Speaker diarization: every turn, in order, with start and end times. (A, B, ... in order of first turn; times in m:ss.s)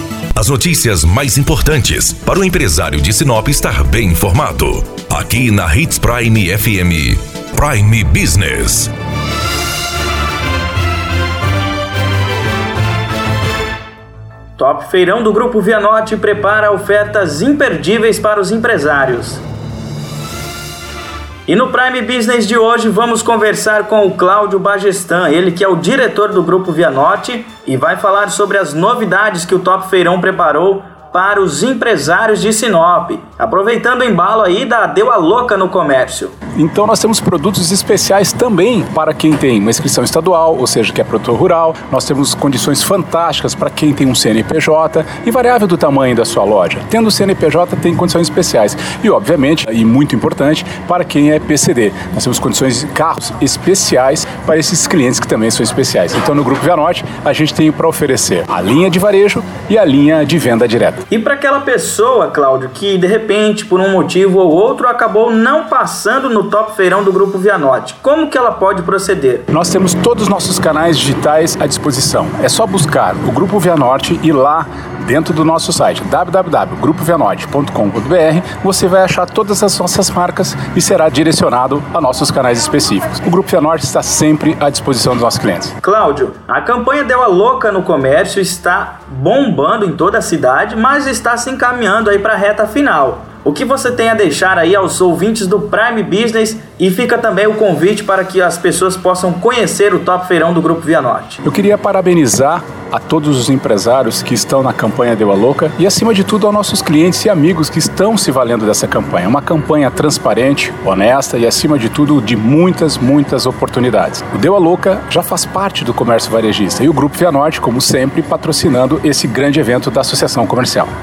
0:00.3-0:08.9 A
0:14.6-0:19.4 B
0:21.4-0:36.3 B
0:36.5-1:01.0 C
1:01.1-1:09.5 B
1:09.5-1:25.7 C
1:25.8-1:41.4 B
1:41.4-2:00.9 C